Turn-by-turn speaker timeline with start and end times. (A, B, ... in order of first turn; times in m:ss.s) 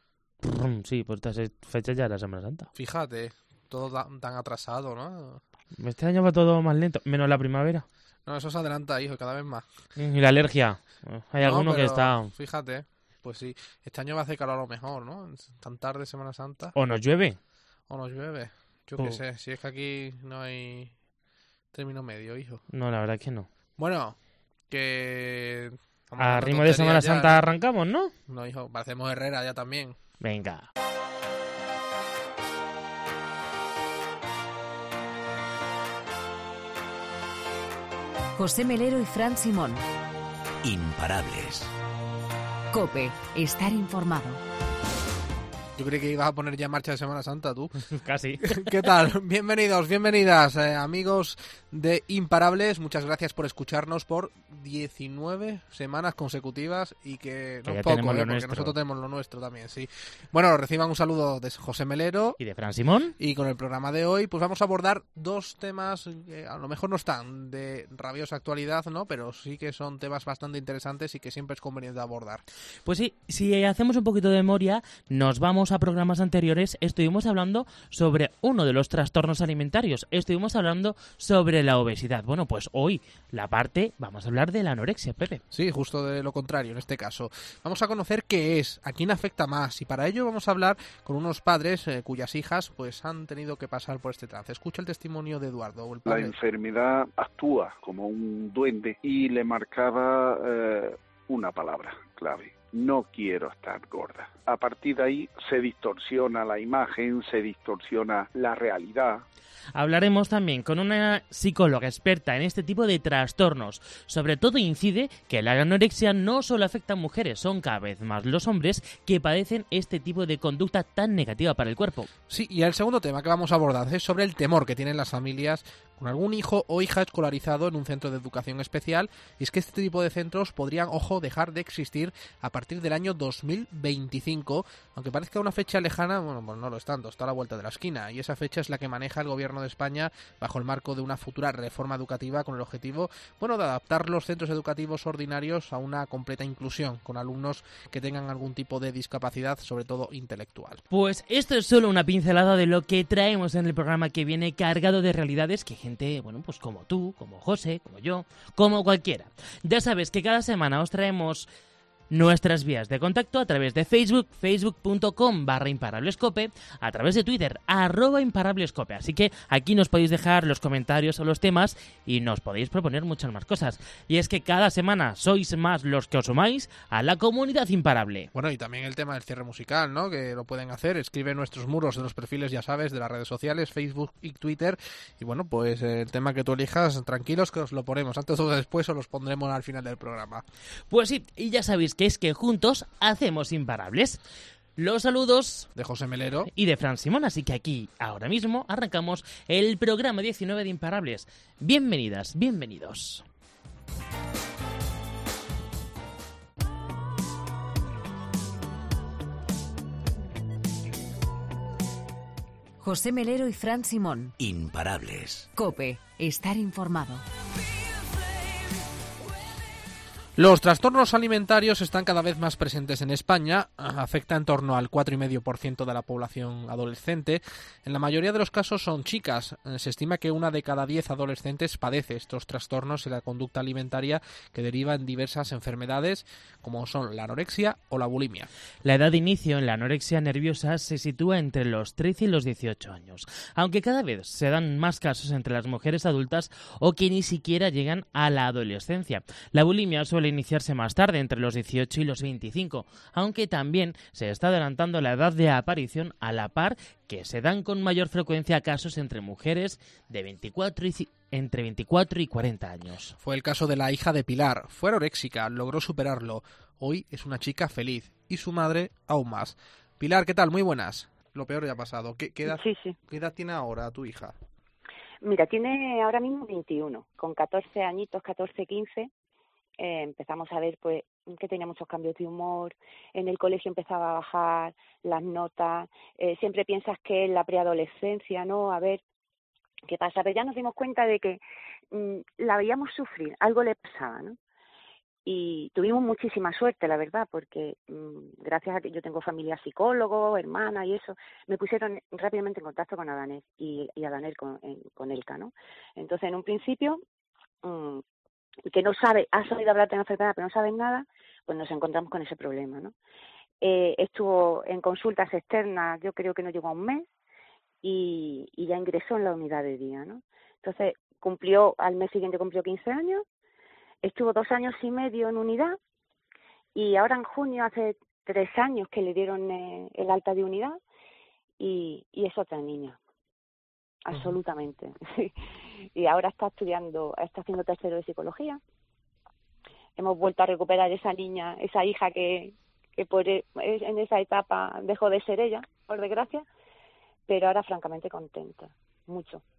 0:00.4-0:02.7 A
0:02.7-0:05.4 B
0:05.8-0:07.9 A
0:08.2-0:09.7 B
0:10.0-0:12.3 A
0:11.4-0:16.8 B
0:16.8-0:17.4 A
0:17.9-0:20.9 B
0:21.7-0:22.6 B
0:22.7-0:23.5 A
0:23.8-0:27.4 B
0:26.2-0:28.1 A
0:28.3-0:30.0 B
0:30.2-0:30.7 A
0:38.4-0:39.8 C
0:40.6-0:41.7 D
0:42.7-0:44.4 C
0:45.8-1:02.4 B
0:48.0-0:48.7 A
0:57.7-0:58.7 A
1:02.4-1:03.2 A
1:03.2-1:12.4 B
1:12.8-1:25.4 A
1:25.5-1:36.3 B
1:36.1-1:49.2 E
1:49.8-2:02.1 A
2:02.3-2:30.8 B
2:30.9-2:41.5 A
2:42.1-2:58.3 A
2:58.3-3:10.4 B
3:10.9-3:14.2 A
3:14.8-3:15.7 A
3:15.8-3:16.5 B
3:16.5-3:23.2 A
3:32.8-3:34.3 C
3:34.4-3:35.5 D
3:35.5-3:37.2 C
3:40.4-3:58.5 B
3:58.8-4:23.2 A
4:23.2-4:34.4 B
4:32.5-4:33.0 F
4:35.2-4:39.1 F
4:39.8-4:49.0 F
4:49.9-4:54.4 F
4:55.3-5:07.0 F
5:07.6-5:08.0 F
5:08.7-5:12.9 F
5:13.6-5:17.1 F
5:17.8-5:23.2 F
5:24.0-5:25.8 F
5:26.8-5:30.8 F
5:31.6-5:33.0 F
5:34.0-5:38.6 F
5:40.0-5:46.5 F
5:47.3-5:49.4 F